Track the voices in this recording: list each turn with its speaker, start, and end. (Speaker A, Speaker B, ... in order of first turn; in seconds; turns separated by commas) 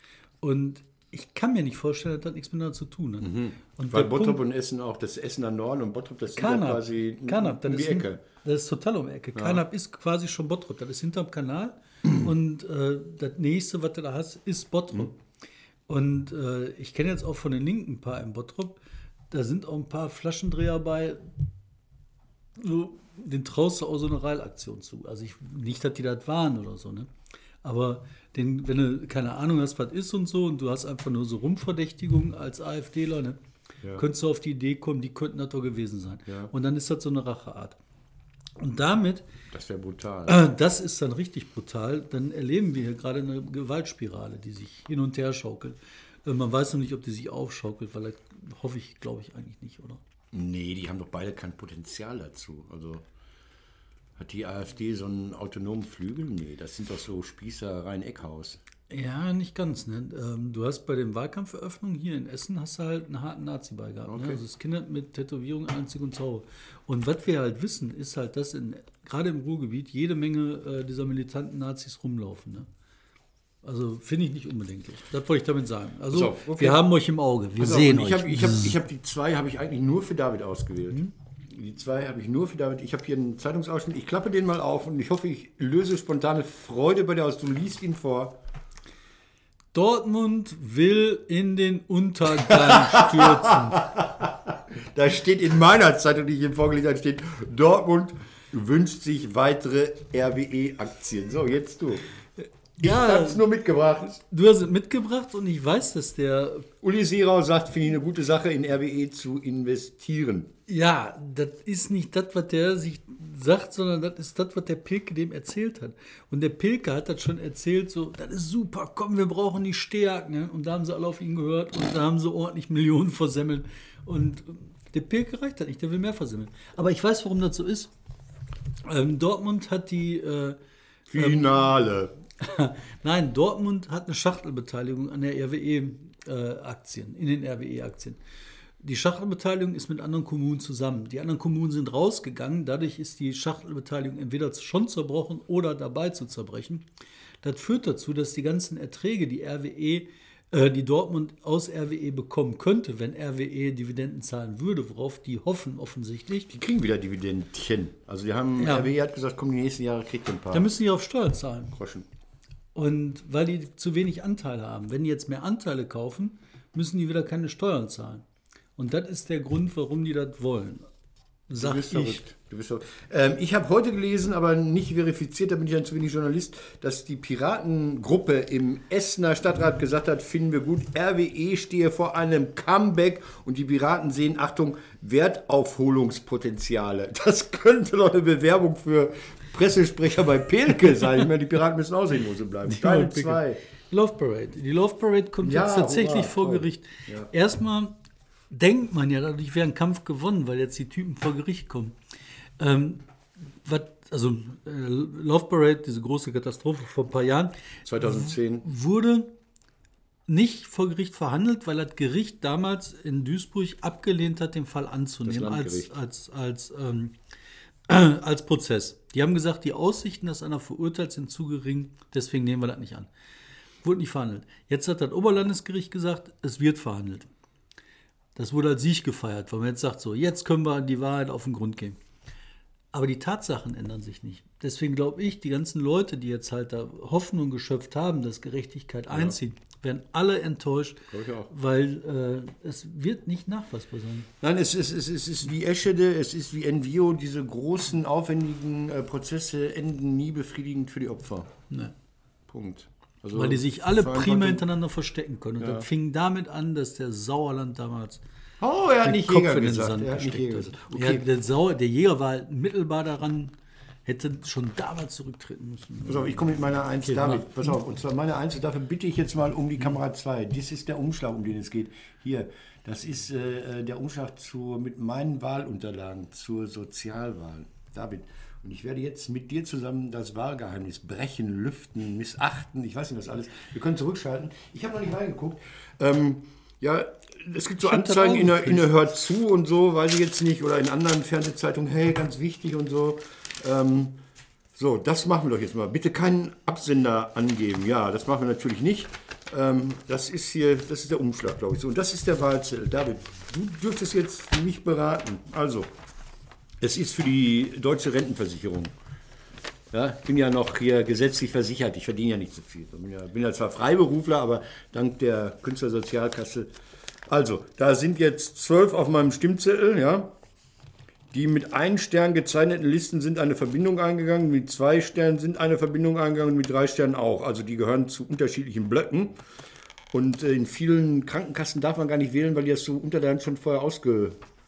Speaker A: 0.4-4.4, Speaker B: 3.2-8.2, Speaker A: 6.3-15.2, Speaker B: 9.3-9.6, Speaker A: 15.9-18.8, Speaker A: 19.3-21.2, Speaker A: 22.6-27.1, Speaker A: 27.6-33.4, Speaker A: 33.9-37.8, Speaker B: 36.3-36.5, Speaker A: 38.6-39.2, Speaker B: 39.5-40.5, Speaker A: 40.3-50.0, Speaker B: 50.3-53.0, Speaker B: 54.1-58.6, Speaker A: 58.9-72.7, Speaker B: 64.1-64.4, Speaker A: 73.6-78.8, Speaker B: 76.1-76.8, Speaker B: 77.6-88.4, Speaker A: 89.7-93.8, Speaker B: 92.4-102.0, Speaker A: 102.8-103.4, Speaker B: 102.8-104.2, Speaker A: 104.2-106.7, Speaker B: 106.8-110.5, Speaker A: 110.7-127.9, Speaker A: 128.8-130.6, Speaker B: 131.1-132.1, Speaker A: 131.1-131.7, Speaker A: 132.4-138.2, Speaker A: 138.8-146.8, Speaker A: 147.4-156.5, Speaker B: 156.5-160.7, Speaker A: 158.6-158.9, Speaker A: 160.5-161.7, Speaker B: 161.7-162.1, Speaker A: 162.7-168.2, Speaker A: 168.8-170.9, Speaker A: 171.5-172.2, Speaker B: 171.6-193.6, Speaker A: 192.7-197.9, Speaker B: 195.4-197.3, Speaker A: 198.5-201.9, Speaker A: 202.6-203.0, Speaker A: 203.6-209.3, Speaker B: 207.8-208.7, Speaker A: 210.3-217.1, Speaker B: 215.2-215.9, Speaker A: 217.9-223.1, Speaker A: 223.8-227.3, Speaker A: 228.3-232.0, Speaker A: 232.9-244.3, Speaker B: 239.1-239.3, Speaker B: 241.1-241.5, Speaker B: 244.4-251.6, Speaker B: 252.5-254.6, Speaker A: 253.3-258.2, Speaker B: 255.6-255.8, Speaker B: 258.6-261.2, Speaker A: 259.0-263.5, Speaker A: 264.1-267.7, Speaker B: 266.1-294.2, Speaker A: 287.8-288.9, Speaker B: 294.7-305.9, Speaker B: 306.8-308.9, Speaker B: 309.9-316.7, Speaker B: 317.3-320.3, Speaker B: 321.3-329.4, Speaker B: 330.1-334.4